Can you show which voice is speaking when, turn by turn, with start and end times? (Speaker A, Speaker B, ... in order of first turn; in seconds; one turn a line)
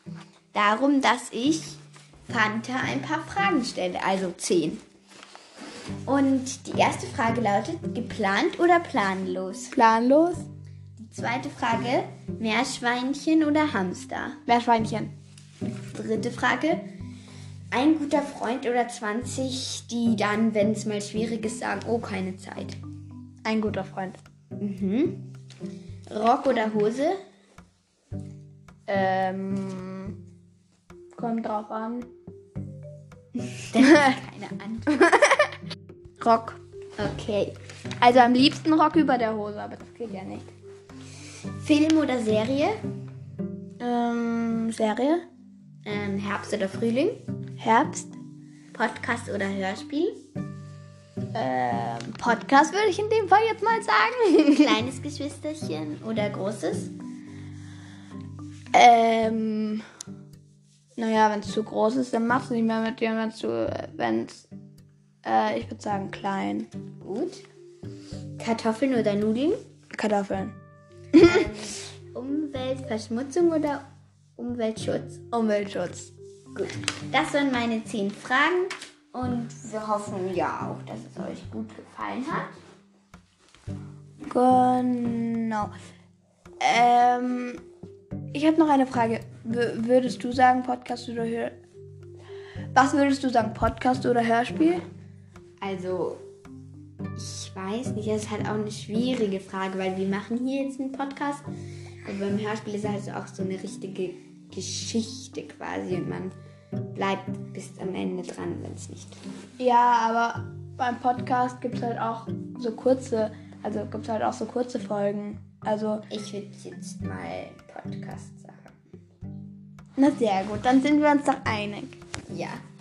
Speaker A: 0.5-4.8
Speaker A: 6.0-9.8
Speaker B: 9.7-10.5
Speaker A: 11.0-14.4
Speaker B: 14.5-15.1
Speaker A: 15.6-16.8
Speaker A: 17.7-22.8
Speaker B: 23.4-24.2
Speaker A: 24.6-25.2
Speaker A: 26.1-27.2
Speaker B: 28.9-30.1
Speaker B: 31.1-32.1
Speaker A: 33.4-35.5
Speaker B: 36.2-36.6
Speaker A: 37.0-37.6
Speaker B: 38.0-40.5
Speaker A: 41.6-42.8
Speaker B: 43.8-45.2
Speaker A: 45.8-47.2
Speaker B: 47.6-48.1
Speaker A: 48.7-50.2
Speaker B: 51.3-54.7
Speaker A: 54.5-56.9
Speaker B: 58.7-59.8
Speaker B: 61.0-64.5
Speaker B: 65.2-66.7
Speaker A: 67.0-67.4
Speaker A: 68.4-69.6
Speaker B: 69.9-70.5
Speaker B: 71.1-71.4
Speaker A: 71.2-73.8
Speaker A: 74.4-75.2
Speaker B: 75.3-76.1
Speaker A: 76.5-82.5
Speaker B: 84.3-85.7
Speaker B: 86.6-87.6
Speaker B: 88.3-91.6
Speaker B: 92.7-94.8
Speaker A: 95.6-96.2
Speaker A: 97.1-101.4
Speaker A: 102.0-106.3
Speaker A: 106.9-109.2
Speaker B: 109.6-116.0
Speaker A: 116.1-118.7
Speaker B: 120.0-122.0
Speaker A: 122.3-122.6